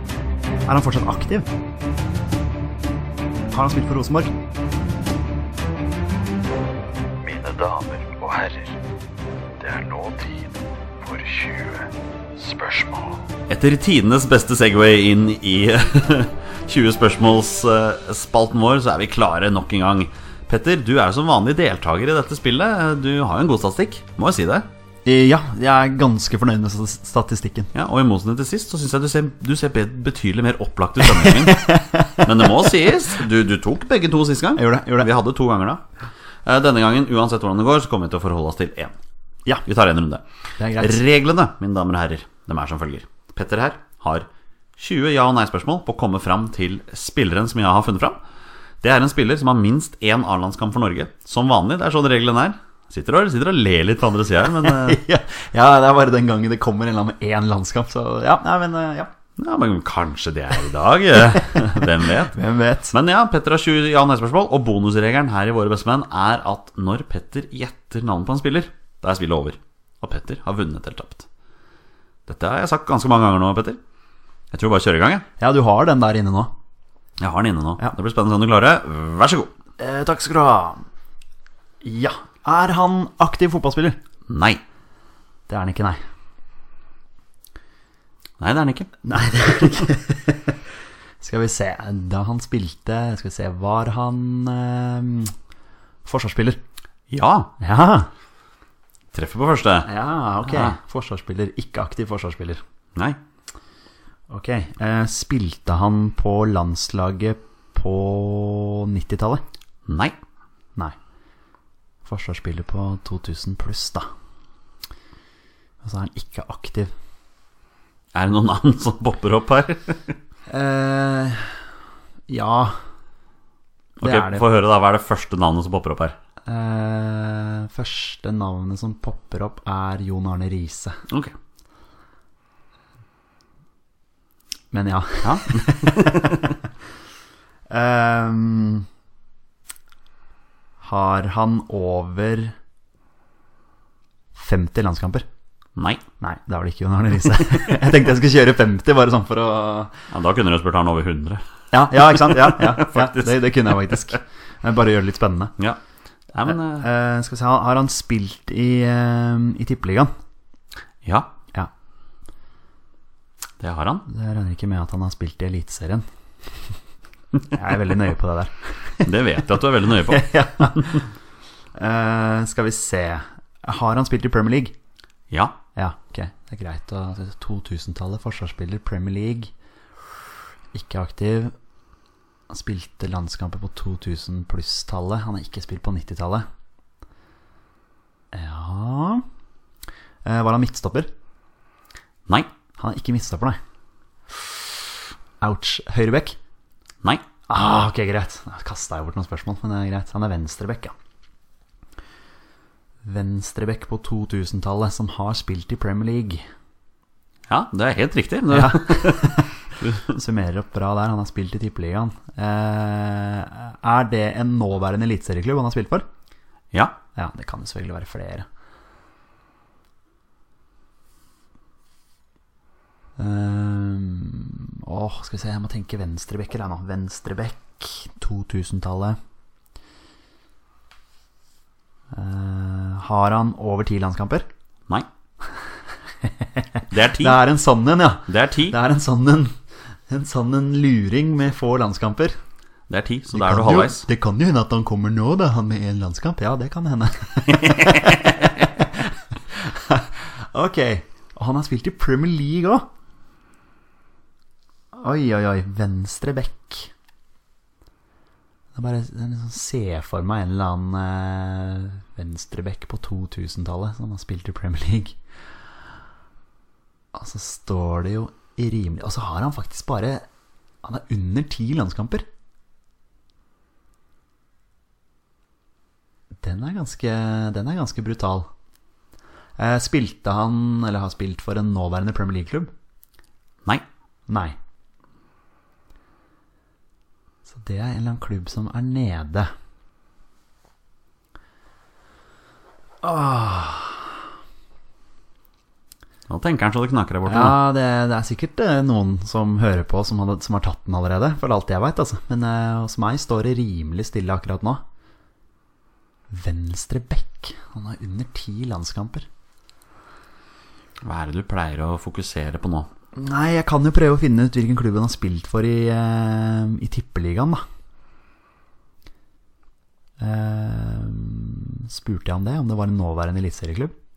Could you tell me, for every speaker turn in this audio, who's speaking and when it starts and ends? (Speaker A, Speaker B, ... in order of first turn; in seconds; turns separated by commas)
Speaker A: 0.7-1.5, Speaker A: 3.5-4.3, Speaker B: 7.2-8.8, Speaker B: 9.6-13.3, Speaker C: 13.5-24.7, Speaker A: 25.1-27.7, Speaker C: 27.7-35.8, Speaker A: 31.1-32.3, Speaker A: 34.6-35.1, Speaker C: 36.4-39.0, Speaker C: 39.6-48.2, Speaker A: 40.6-41.0, Speaker C: 48.8-55.0, Speaker A: 54.5-59.1, Speaker C: 59.4-62.4, Speaker A: 61.5-62.9, Speaker C: 62.9-71.3, Speaker C: 72.3-73.8, Speaker C: 74.5-75.3, Speaker A: 75.4-76.5, Speaker C: 77.2-79.5, Speaker A: 79.8-80.8, Speaker A: 81.8-84.0, Speaker C: 84.3-84.6, Speaker A: 85.5-86.0, Speaker C: 88.4-88.9, Speaker A: 89.0-90.6, Speaker A: 91.2-95.3, Speaker A: 96.0-96.6, Speaker C: 97.1-97.5, Speaker A: 97.6-98.1, Speaker C: 99.1-99.9, Speaker A: 99.8-102.6, Speaker C: 100.4-100.8, Speaker A: 104.3-109.4, Speaker C: 109.9-110.2, Speaker A: 112.0-114.1, Speaker A: 115.8-116.9, Speaker C: 118.1-120.2, Speaker A: 120.5-121.6, Speaker A: 122.3-122.8, Speaker C: 124.0-126.2, Speaker A: 124.0-124.5, Speaker A: 126.5-131.0, Speaker C: 131.1-131.3, Speaker A: 134.7-136.6, Speaker C: 135.2-136.5, Speaker A: 137.7-138.9, Speaker A: 140.8-142.6, Speaker A: 144.3-145.2, Speaker C: 145.8-146.0, Speaker A: 146.2-150.0, Speaker C: 150.1-154.2, Speaker A: 151.7-155.6, Speaker C: 156.3-156.9, Speaker A: 156.5-160.1, Speaker C: 161.0-161.3, Speaker C: 163.6-164.1, Speaker A: 164.1-166.1, Speaker A: 167.5-169.1, Speaker C: 169.0-171.0, Speaker A: 169.9-171.1, Speaker A: 171.8-174.8, Speaker C: 175.3-175.6, Speaker A: 175.8-179.5, Speaker A: 180.7-181.5, Speaker A: 182.5-186.4, Speaker A: 188.3-189.2, Speaker A: 190.2-191.1, Speaker A: 192.8-193.6, Speaker A: 194.3-194.8, Speaker A: 195.4-196.4, Speaker A: 197.5-200.9, Speaker A: 203.0-206.4, Speaker C: 207.5-210.0, Speaker A: 208.5-216.1, Speaker A: 217.1-218.4, Speaker A: 223.2-229.2, Speaker A: 232.1-234.5, Speaker A: 236.2-239.6, Speaker C: 236.9-237.4, Speaker C: 238.3-238.8, Speaker A: 240.1-242.4, Speaker C: 242.9-244.1, Speaker A: 243.3-252.9, Speaker C: 247.5-248.5, Speaker A: 254.9-256.9, Speaker A: 258.7-265.2, Speaker A: 267.1-270.2, Speaker A: 270.8-272.3, Speaker A: 276.4-278.5, Speaker A: 279.6-282.7, Speaker A: 284.3-284.6, Speaker A: 287.5-289.5, Speaker A: 293.0-294.1, Speaker C: 296.3-297.6, Speaker A: 297.3-304.8, Speaker A: 306.3-309.3, Speaker C: 311.0-312.9, Speaker A: 313.1-317.6, Speaker A: 320.2-323.9